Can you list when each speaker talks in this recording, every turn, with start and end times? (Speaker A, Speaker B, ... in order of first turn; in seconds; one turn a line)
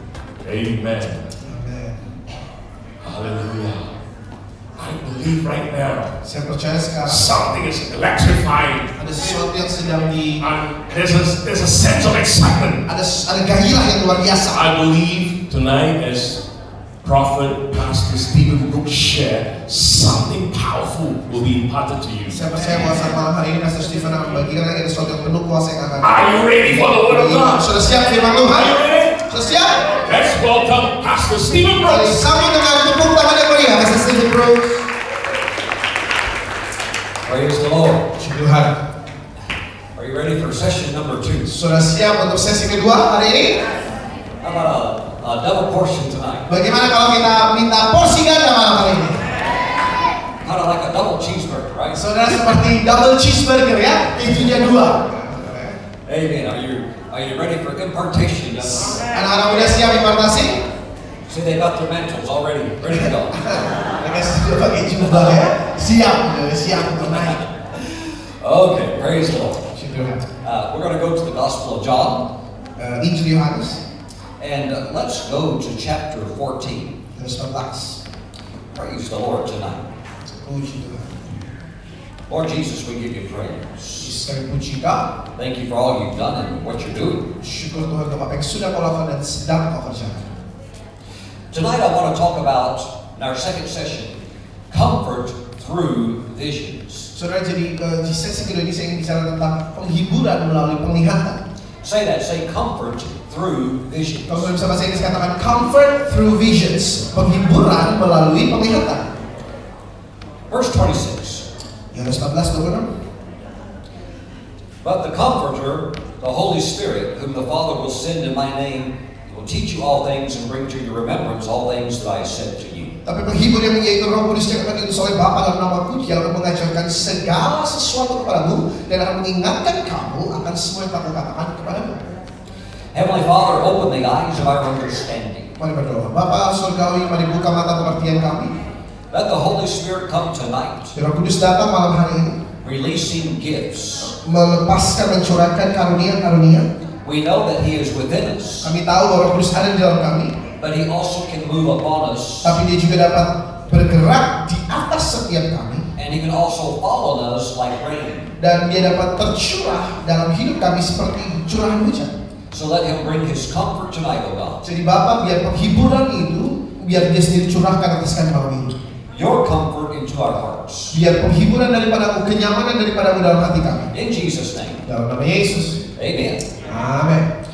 Speaker A: 0.4-1.3
Speaker B: 1.4-2.1
Speaker A: 3.0-3.8
Speaker A: 4.8-6.1
Speaker B: 6.2-7.3
Speaker A: 7.1-8.9
Speaker B: 9.0-10.4
Speaker A: 10.4-12.8
Speaker B: 12.9-14.6
Speaker A: 14.5-16.4
Speaker A: 17.0-22.7
Speaker B: 22.3-26.2
Speaker A: 26.0-27.7
Speaker B: 27.1-29.9
Speaker A: 28.4-29.2
Speaker A: 29.9-32.3
Speaker B: 31.8-34.9
Speaker C: 37.2-38.0
Speaker B: 38.2-38.8
Speaker C: 40.0-41.5
Speaker B: 41.5-43.6
Speaker C: 44.4-46.5
Speaker B: 46.5-49.2
Speaker C: 50.4-52.0
Speaker B: 51.9-55.8
Speaker C: 56.1-59.0
Speaker B: 58.6-60.6
Speaker C: 61.3-63.5
Speaker B: 63.3-67.4
Speaker C: 67.2-69.7
Speaker B: 69.8-70.3
Speaker C: 70.4-72.3
Speaker B: 72.8-73.8
Speaker C: 74.4-77.0
Speaker B: 77.2-78.0
Speaker C: 78.7-79.9
Speaker B: 80.4-81.3
Speaker C: 82.3-84.1
Speaker B: 84.0-85.1
Speaker C: 85.4-87.3
Speaker B: 87.4-90.3
Speaker C: 91.5-94.2
Speaker C: 94.7-97.1
Speaker B: 97.2-101.4
Speaker C: 101.8-104.5
Speaker B: 104.3-109.1
Speaker C: 110.5-111.5
Speaker B: 111.9-112.9
Speaker C: 114.8-122.9
Speaker B: 123.0-132.2
Speaker C: 132.9-135.5
Speaker B: 135.6-138.5
Speaker C: 139.1-140.9
Speaker B: 140.9-142.4
Speaker C: 142.6-144.2
Speaker B: 144.2-146.7
Speaker C: 147.0-148.7
Speaker B: 148.6-150.4
Speaker C: 150.6-152.6
Speaker B: 152.4-155.9
Speaker C: 156.0-158.3
Speaker B: 158.4-162.1
Speaker C: 162.5-164.6
Speaker B: 164.6-168.8
Speaker C: 169.1-171.0
Speaker B: 170.9-173.9
Speaker C: 173.9-174.8
Speaker B: 174.8-175.8
Speaker C: 176.0-176.4
Speaker B: 176.6-177.3